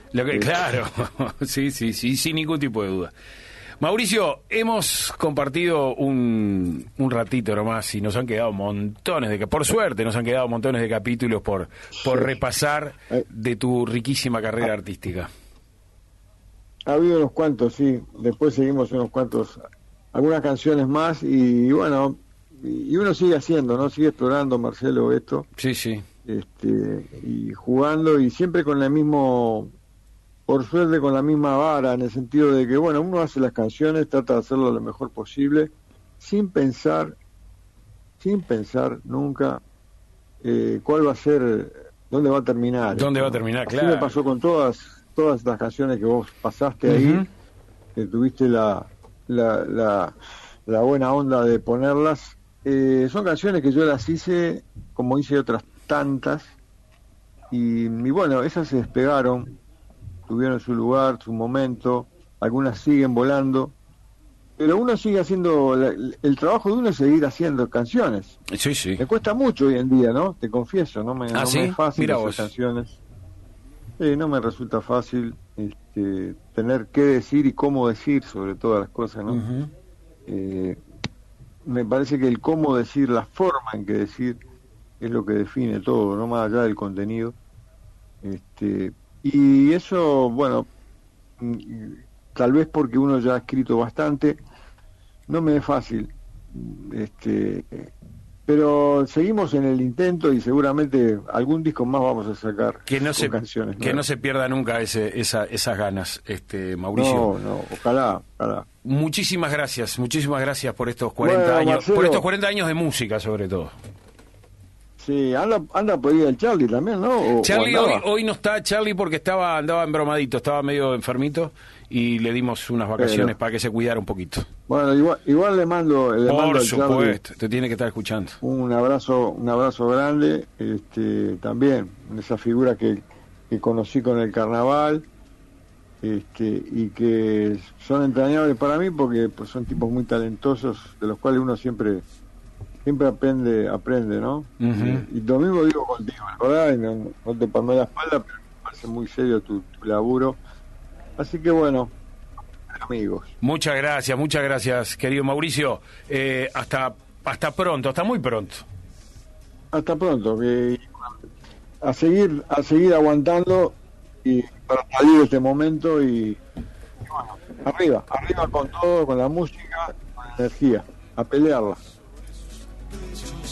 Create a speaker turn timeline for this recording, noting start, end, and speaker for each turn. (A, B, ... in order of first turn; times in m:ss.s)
0:00.1-0:03.1 A
0:00.3-0:00.7 B
0:03.8-0:15.3 A
0:12.0-0:12.3 B
0:16.9-0:19.6 B
0:20.1-0:25.5 B
0:25.6-0:26.0 A
0:26.2-0:29.7 B
0:30.5-0:37.2 B
0:38.2-0:39.6 B
0:40.4-0:47.2 B
0:42.9-0:44.2 A
0:46.9-0:47.3 A
0:48.0-0:56.5 B
0:57.5-0:59.5 B
1:00.3-1:03.8 B
1:04.6-1:08.4 B
1:08.5-1:09.0 A
1:09.0-1:13.0 B
1:11.3-1:12.5 A
1:14.0-1:19.4 B
1:19.3-1:19.7 A
1:20.3-1:20.8 B
1:21.6-1:24.4 B
1:25.0-1:27.4 B
1:28.2-1:30.7 B
1:31.4-1:34.4 B
1:35.3-1:37.9 B
1:38.5-1:44.0 B
1:42.9-1:47.3 A
1:46.9-1:48.7 B
1:48.8-1:53.7 A
1:51.2-1:52.2 B
1:55.0-1:58.0 B
1:57.4-2:04.5 A
2:03.0-2:03.4 B
2:04.7-2:07.2 B
2:06.3-2:08.4 A
2:08.4-2:15.1 B
2:16.0-2:22.0 B
2:22.8-2:30.4 B
2:24.6-2:25.1 A
2:31.2-2:32.0 B
2:32.7-2:33.3 B
2:33.4-2:38.7 A
2:39.7-2:41.2 B
2:41.8-2:46.4 B
2:47.0-2:51.8 B